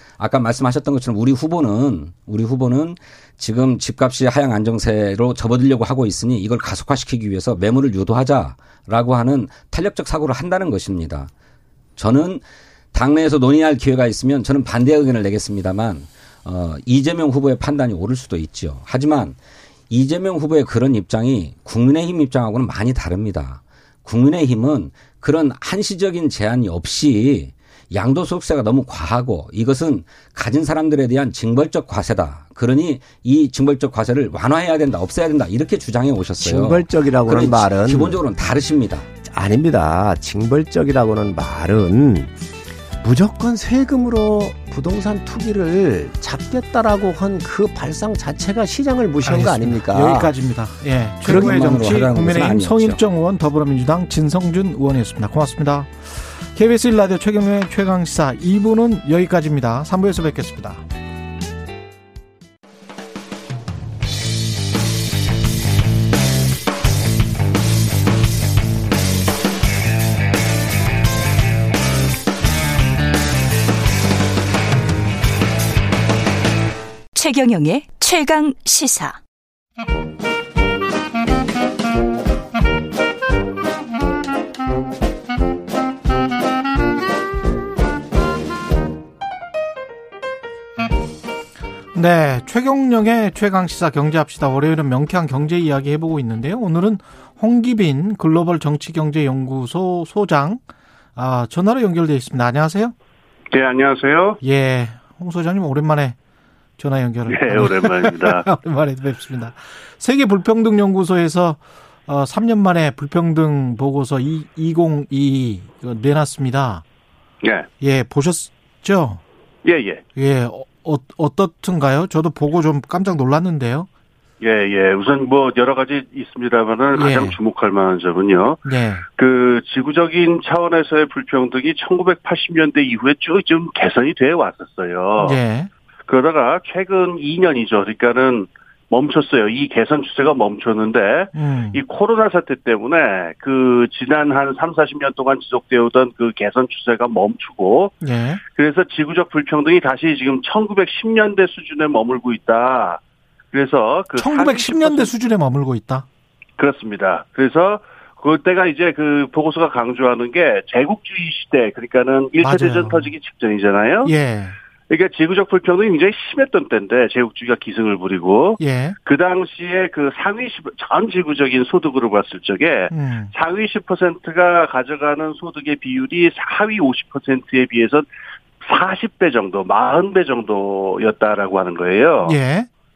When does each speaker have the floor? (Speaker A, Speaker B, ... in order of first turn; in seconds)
Speaker A: 0.2-11.3, 12.0-19.4, 19.9-39.0, 51.2-53.0
Speaker B: 36.4-38.2, 39.3-42.3, 43.0-50.3, 51.2-52.5
Speaker C: 49.2-60.8, 91.9-100.6, 101.2-102.9, 104.4-106.2, 106.8-116.8, 117.8-119.2, 120.2-123.9, 126.9-127.4, 128.6-129.0, 135.2-135.7, 141.3-141.8, 148.0-148.4, 154.2-156.1, 162.4-163.1, 164.0-164.6, 168.6-169.0, 172.9-173.3, 182.2-182.7
Speaker D: 77.1-79.2
Speaker E: 103.5-104.4, 107.3-108.5, 117.4-117.7, 119.6-120.0, 124.4-128.6, 129.2-135.4, 136.1-147.9, 148.5-153.0, 153.5-155.1, 156.6-164.1, 164.9-178.1, 178.6-182.4